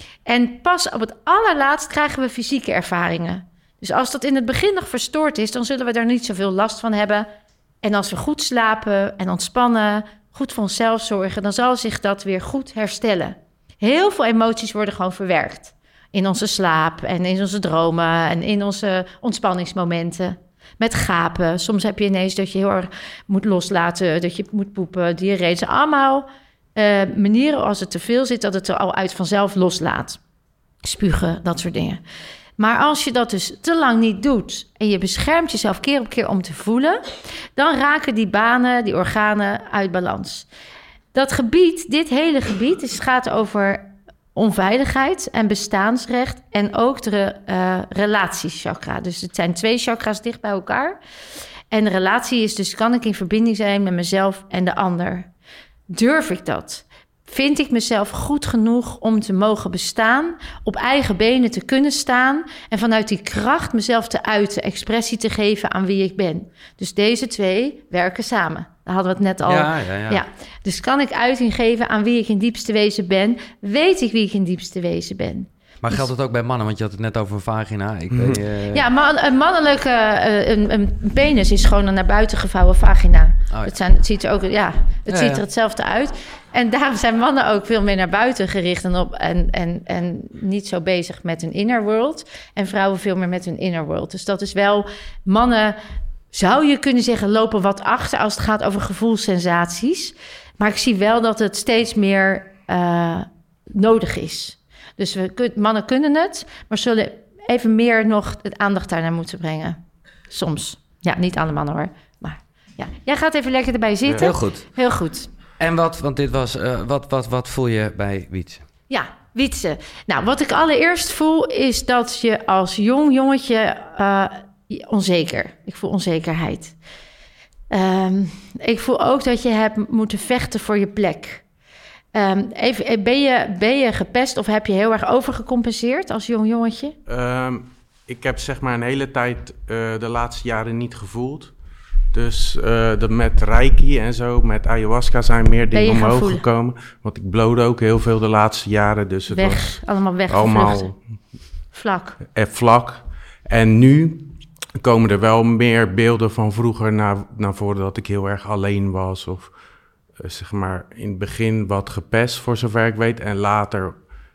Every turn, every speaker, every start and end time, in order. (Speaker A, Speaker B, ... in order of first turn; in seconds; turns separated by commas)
Speaker A: 0.3-7.3, Speaker A: 7.8-30.2, Speaker A: 30.8-32.0, Speaker A: 32.6-40.5, Speaker A: 41.1-51.0, Speaker A: 51.7-55.3, Speaker A: 55.9-76.1, Speaker B: 69.5-70.2, Speaker B: 75.8-78.9, Speaker C: 78.1-78.4, Speaker A: 78.7-95.8, Speaker B: 85.1-85.4, Speaker A: 96.3-115.3, Speaker B: 114.2-114.7, Speaker B: 115.6-118.7, Speaker A: 118.9-126.8, Speaker A: 127.7-131.4, Speaker A: 132.1-137.0, Speaker C: 137.1-141.6, Speaker C: 142.1-151.0, Speaker A: 145.7-146.4, Speaker A: 149.3-150.9, Speaker A: 151.7-152.2, Speaker C: 152.3-159.6, Speaker C: 160.2-164.0